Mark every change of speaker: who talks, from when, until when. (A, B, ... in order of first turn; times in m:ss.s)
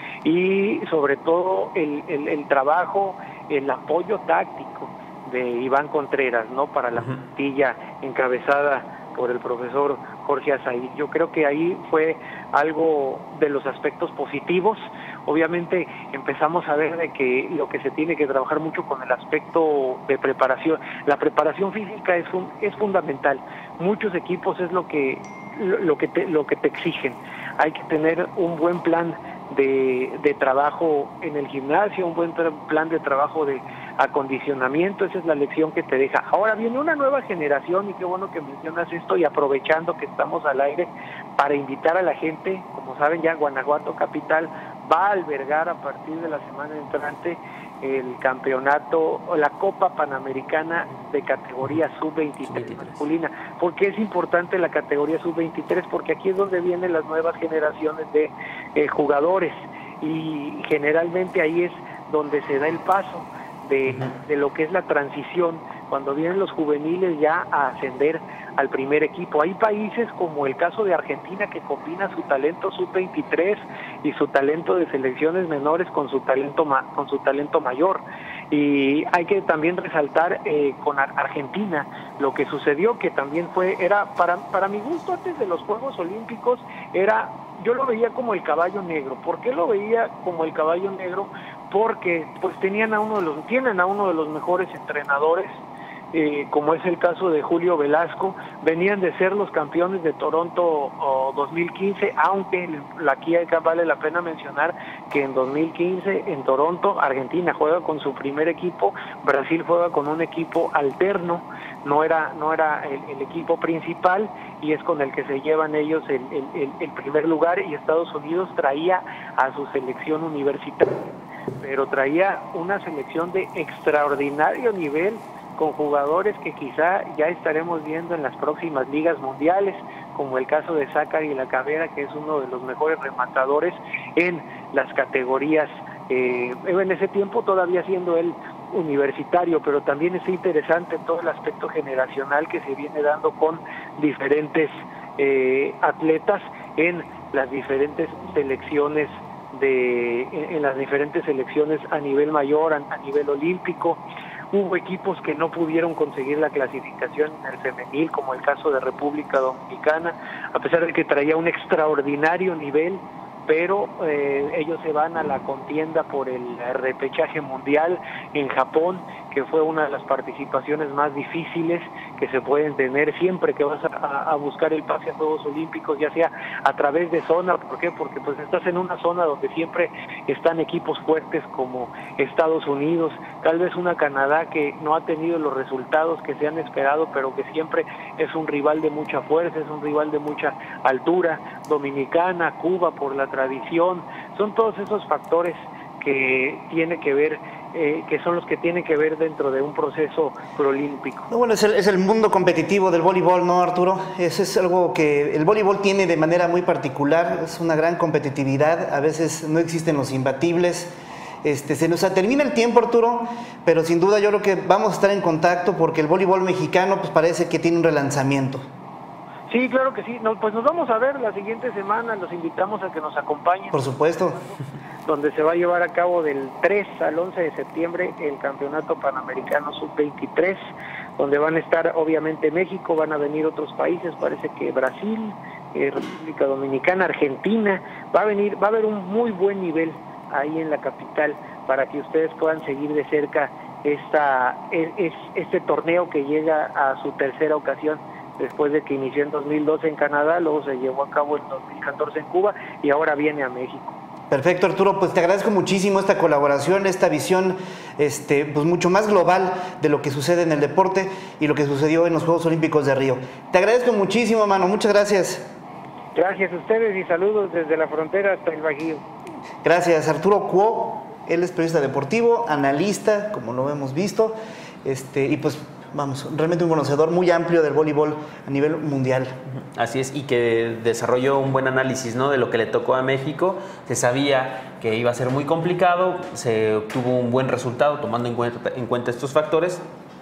0:00.2-1:35.6 A
0:52.4-0:53.0 B
1:03.9-1:04.1 B
1:36.1-3:21.3 A
3:21.3-3:30.9 C
3:31.4-3:38.6 C
3:39.5-3:43.8 A
3:43.7-3:44.4 C
3:45.0-3:50.6 A
3:51.2-4:14.0 A
4:14.3-4:25.5 C
4:26.1-4:29.0 A
4:29.6-4:39.3 C
4:39.7-4:49.8 B